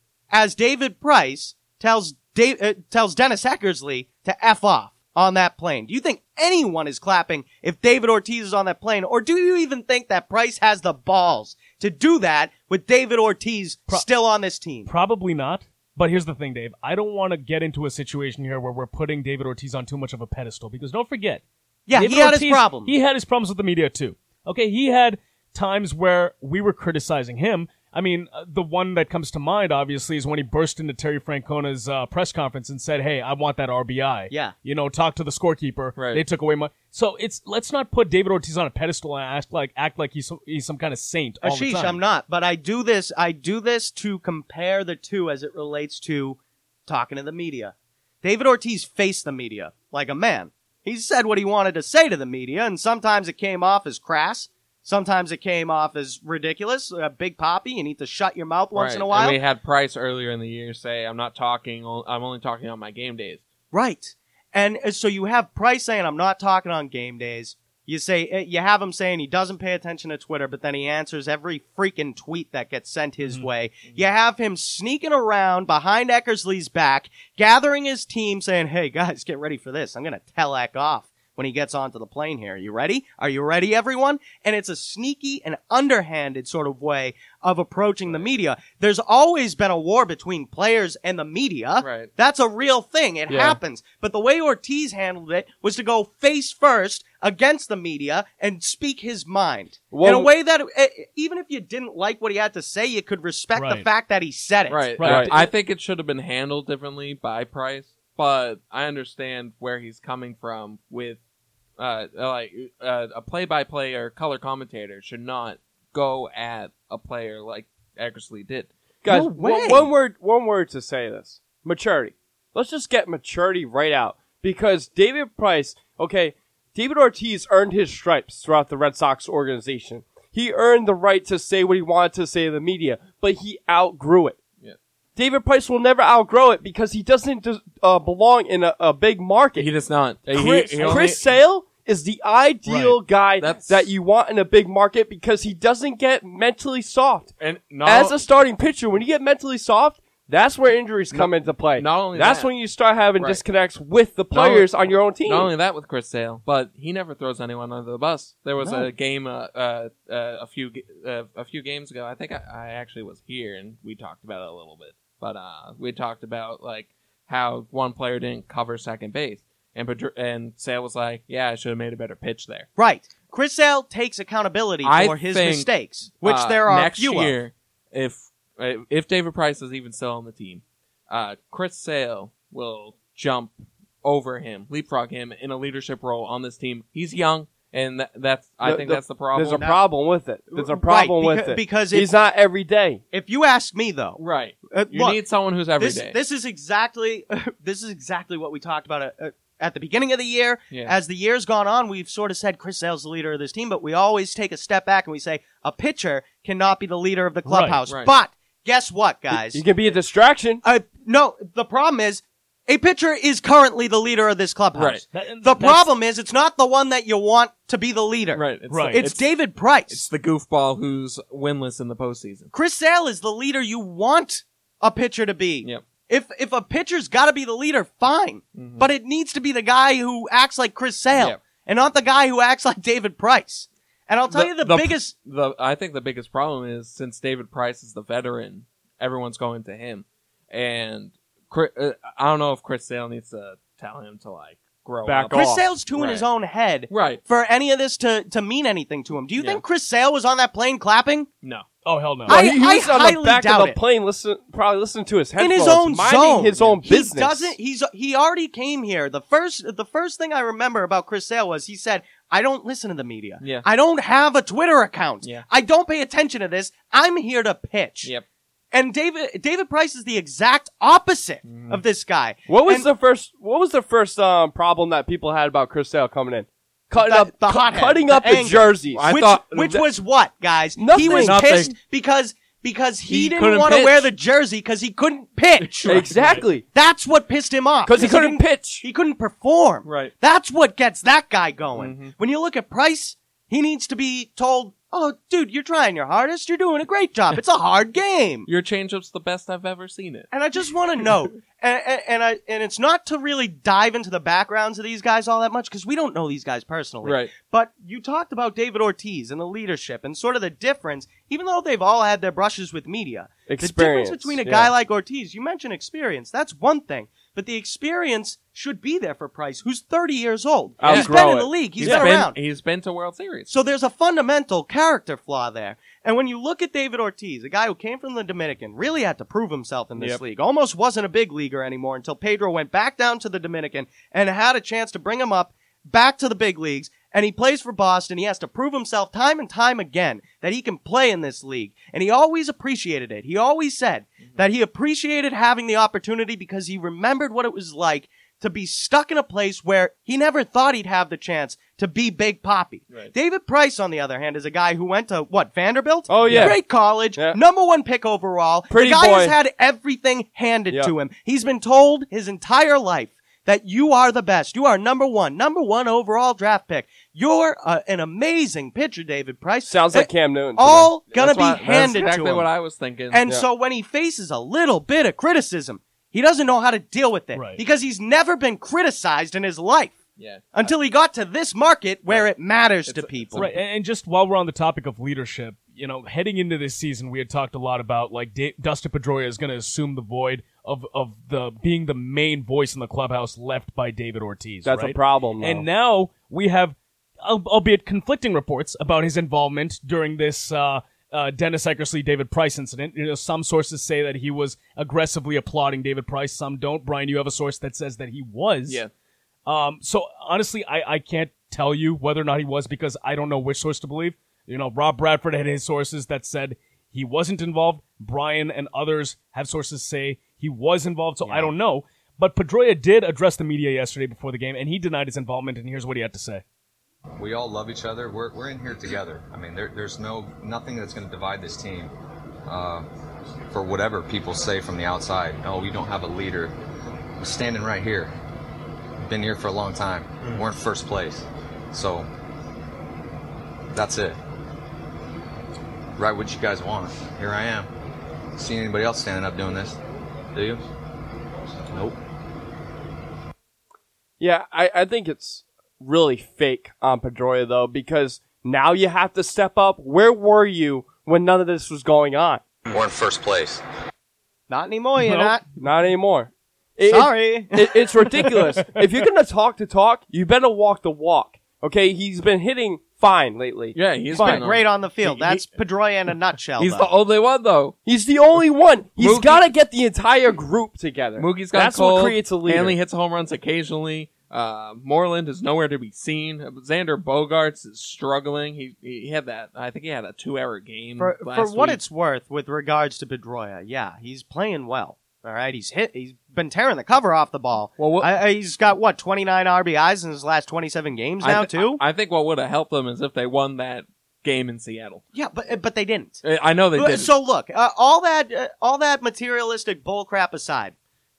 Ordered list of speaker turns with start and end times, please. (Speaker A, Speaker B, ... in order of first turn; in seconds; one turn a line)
Speaker A: 0.3-14.9
Speaker B: 14.9-21.4
Speaker A: 21.9-22.9
Speaker B: 22.0-42.0
Speaker C: 36.0-36.2
Speaker A: 41.4-59.4
Speaker C: 58.7-63.4
Speaker A: 63.7-105.1
Speaker C: 91.8-92.1
Speaker D: 93.3-93.6
Speaker D: 99.9-100.3
Speaker B: 103.6-103.9
Speaker C: 104.7-111.2
Speaker B: 105.0-105.4
Speaker D: 105.0-105.3
Speaker C: 111.8-118.7
Speaker D: 119.0-134.4
Speaker A: 119.1-119.9
Speaker D: 135.2-139.7
Speaker C: 139.6-141.4
Speaker D: 140.3-147.3
Speaker B: 142.7-143.0
Speaker C: 143.4-143.9
Speaker C: 147.4-148.2
Speaker D: 147.8-155.5
Speaker C: 151.1-152.5
Speaker C: 153.2-153.4
Speaker C: 154.3-172.7
Speaker D: 158.6-158.9
Speaker A: 172.8-177.3
Speaker C: 174.8-189.7
Speaker D: 188.6-193.0
Speaker A: 189.6-189.8
Speaker A: 190.5-192.1
Speaker A: 193.1-194.2
Speaker C: 194.2-196.2
Speaker A: 194.7-195.2
Speaker A: 195.8-209.6
Speaker B: 207.4-207.8
Speaker D: 209.3-210.6
Speaker A: 210.6-220.0
Speaker C: 214.8-215.0
Speaker B: 215.1-215.9
Speaker C: 218.3-219.3
Speaker B: 218.7-219.0
Speaker C: 219.9-222.5
Speaker A: 222.5-235.1
Speaker C: 228.6-228.9
Speaker C: 234.3-246.3
Speaker D: 245.1-245.7
Speaker A: 245.3-251.3
Speaker C: 246.9-247.2
Speaker B: 251.8-252.4
Speaker A: 252.3-253.8
Speaker D: 252.3-257.5
Speaker A: 255.4-268.1
Speaker C: 263.4-263.7
Speaker A: 268.7-272.9
Speaker C: 271.4-271.8
Speaker D: 272.5-279.8
Speaker A: 277.0-286.1
Speaker C: 278.9-279.8
Speaker D: 280.8-281.4
Speaker C: 280.9-281.8
Speaker C: 283.1-284.1
Speaker C: 285.6-286.5
Speaker D: 285.9-286.6
Speaker A: 286.7-298.5
Speaker D: 287.9-288.8
Speaker C: 289.9-290.1
Speaker C: 291.8-292.1
Speaker C: 298.5-300.3
Speaker A: 300.3-322.4
Speaker C: 307.0-307.3
Speaker D: 313.5-314.7
Speaker D: 320.8-322.1
Speaker C: 320.8-323.5
Speaker A: 323.5-372.5
Speaker D: 356.1-356.6
Speaker C: 356.2-356.5
Speaker D: 358.7-359.4
Speaker D: 369.7-370.9
Speaker C: 371.1-373.2
Speaker A: 373.1-380.0
Speaker B: 377.3-377.6
Speaker C: 380.2-380.7
Speaker A: 380.5-383.5
Speaker C: 382.9-383.6
Speaker B: 383.4-408.8
Speaker D: 394.6-395.7
Speaker B: 409.5-426.4
Speaker E: 427.2-431.9
Speaker E: 432.5-432.9
Speaker E: 433.5-436.5
Speaker E: 437.2-438.1
Speaker E: 439.0-442.1
Speaker E: 443.7-444.2
Speaker E: 446.0-447.7
Speaker E: 448.4-449.8
Speaker E: 450.3-450.6
Speaker E: 451.7-452.0
Speaker D: 454.2-462.4
Speaker E: 462.7-463.6
Speaker A: 464.5-465.4
Speaker B: 465.0-465.3
Speaker D: 465.6-474.4
Speaker A: 466.9-467.8
Speaker C: 473.8-475.5
Speaker A: 474.1-476.9
Speaker C: 476.6-477.8
Speaker D: 477.9-482.8
Speaker C: 479.0-479.5
Speaker C: 481.2-491.8
Speaker A: 491.0-501.8
Speaker C: 497.8-498.1
Speaker C: 501.2-505.0
Speaker A: 505.1-506.2
Speaker C: 506.2-507.1
Speaker A: 506.8-510.8